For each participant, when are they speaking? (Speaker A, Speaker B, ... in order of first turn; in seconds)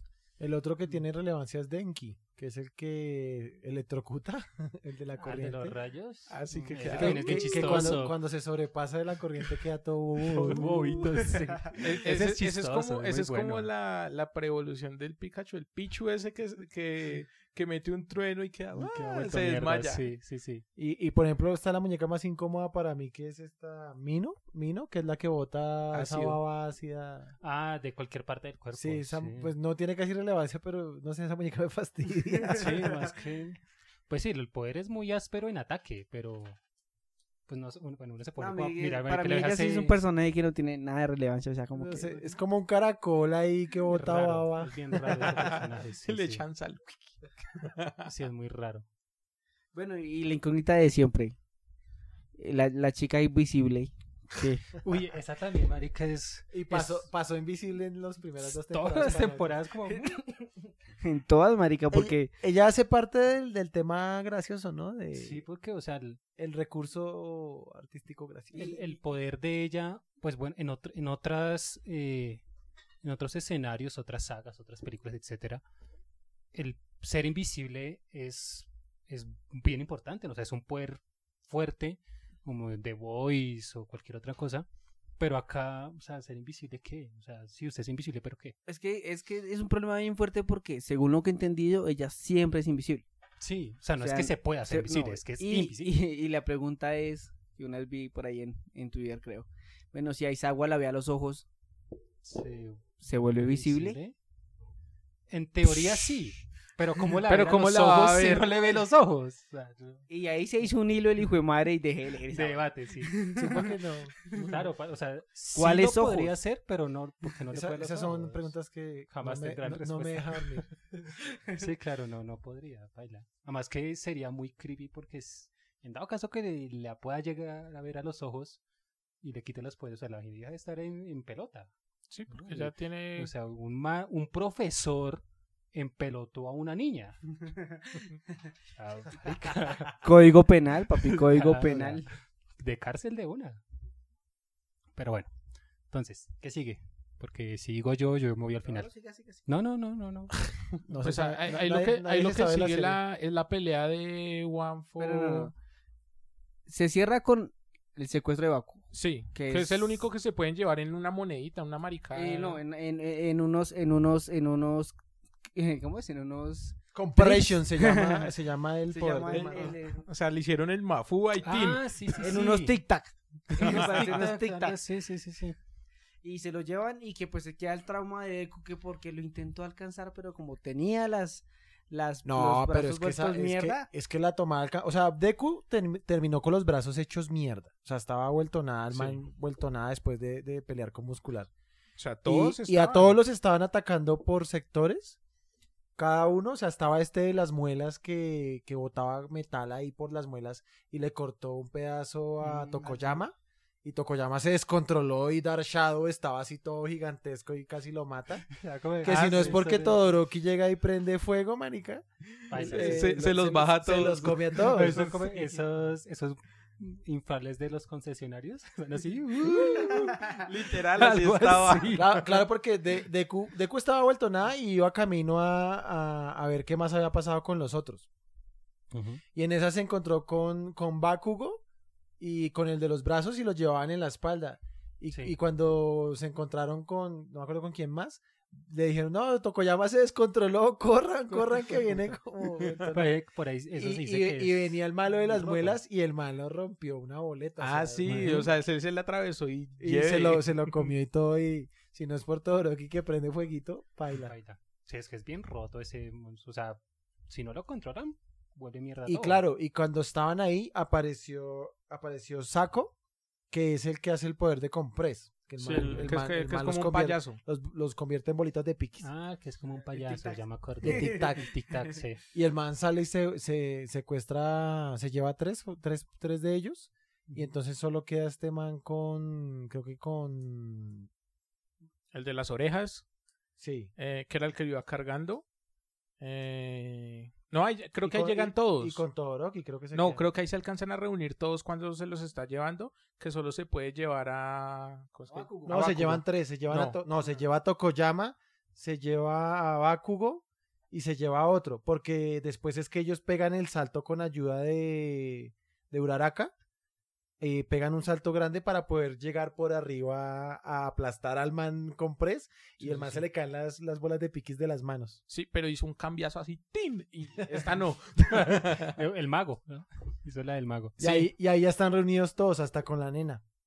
Speaker A: 0.4-5.8, 6.9-10.7, 20.8-27.3, 28.8-33.1, 41.8-45.3, 56.5-59.6, 61.9-65.4, 66.4-68.7, 113.3-114.3, 117.5-120.7, 150.8-153.0, 166.9-169.8, 182.2-191.5, 192.3-195.2, 196.0-208.5, 209.0-215.1, 221.9-228.1, 229.3-231.6, 232.2-243.1, 243.8-248.5, 249.8-254.3, 259.1-262.9, 263.5-269.1, 270.8-271.5, 272.3-281.1, 283.6-283.9, 288.0-290.2, 295.7-306.5, 307.4-315.2, 317.5-317.7, 321.0-323.4
Speaker B: 5.2-8.2, 10.3-13.7, 18.8-20.6, 27.4-29.5, 32.5-36.6, 37.5-40.0, 43.9-46.4, 48.0-48.9, 54.8-57.1, 58.4-60.5, 65.2-66.2, 68.5-72.4, 73.0-75.6, 76.5-84.7, 85.2-88.6, 93.4-95.9, 102.2-104.1, 105.3-110.0, 112.3-113.3, 114.3-118.5, 119.1-120.7, 121.5-128.6, 129.2-131.7, 132.3-137.4, 138.8-140.1, 141.0-142.0, 142.6-143.6, 145.0-145.3, 145.9-148.9, 149.5-150.4, 171.4-172.7, 173.5-175.6, 202.4-203.2, 208.5-210.0, 212.5-213.2, 214.6-222.3, 228.9-229.2, 242.9-244.7, 245.3-245.8, 248.1-248.5, 254.1-259.5, 265.7-266.1, 269.0-272.2, 312.8-313.2, 318.3-321.3
Speaker C: 6.3-8.0, 10.3-20.1, 25.9-26.4, 45.2-48.1, 107.2-108.5, 132.1-133.3, 151.0-155.5, 158.9-162.6, 169.3-171.9, 173.5-174.1, 192.0-193.1, 212.6-215.1, 219.6-222.2, 242.6-242.9, 247.6-250.9, 265.6-267.4, 282.1-283.1, 284.0-285.4, 286.2-289.0, 289.9-297.0, 315.3-319.0
Speaker D: 38.4-42.3, 49.7-51.4, 52.4-54.7, 61.0-62.3, 68.5-68.8, 88.7-93.0, 94.0-101.5, 103.0-104.0, 110.1-113.7, 115.5-116.3, 140.0-142.1, 148.6-149.5, 155.0-155.5, 156.7-159.8, 162.1-165.0, 165.5-168.3, 168.9-170.1, 172.2-174.8, 176.2-183.9, 269.9-271.2, 295.3-295.8